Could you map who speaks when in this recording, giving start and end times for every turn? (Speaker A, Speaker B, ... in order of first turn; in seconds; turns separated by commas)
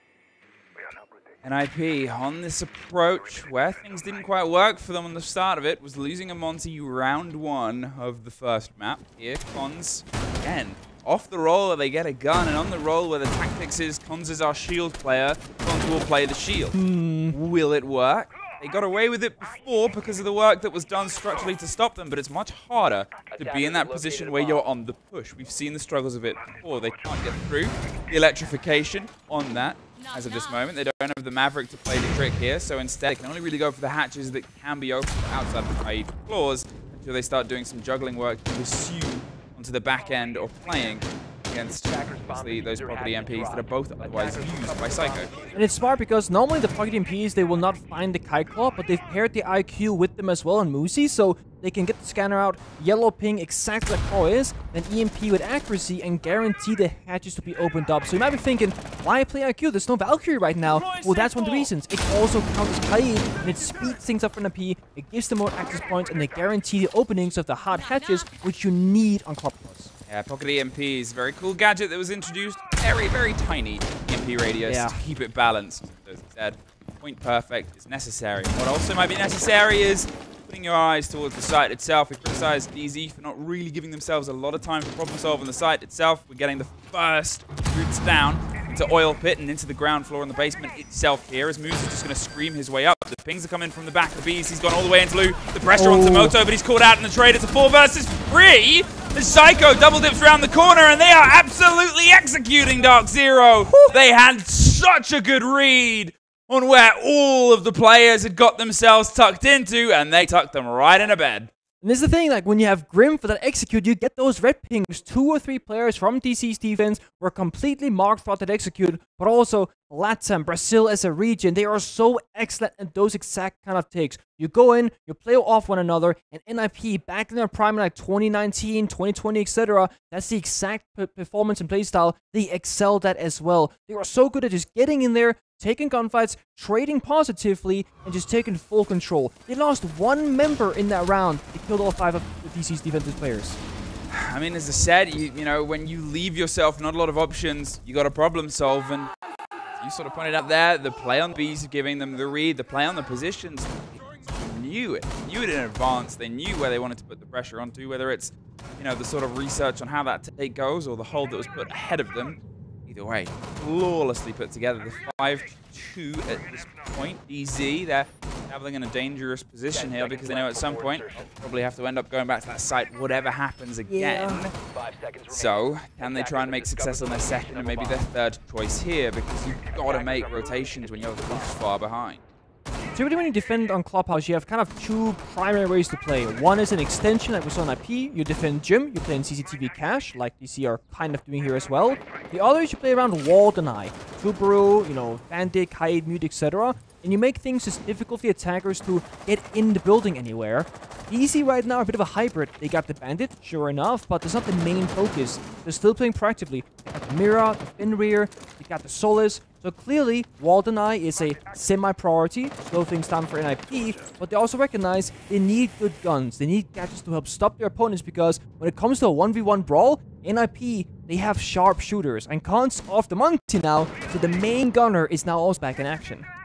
Speaker A: 1.4-16.8, Speaker B: 16.7-17.3, Speaker A: 17.3-45.4, Speaker C: 23.3-24.7, Speaker C: 41.8-45.7, Speaker B: 45.5-69.9, Speaker A: 70.1-111.5, Speaker B: 74.7-74.9, Speaker B: 95.8-96.3, Speaker B: 103.7-103.9, Speaker B: 111.8-143.6, Speaker A: 144.1-149.1, Speaker A: 149.7-174.5, Speaker C: 169.7-171.3, Speaker B: 173.9-174.4, Speaker C: 174.7-178.1, Speaker A: 175.3-182.2, Speaker C: 179.7-181.6, Speaker B: 182.9-226.3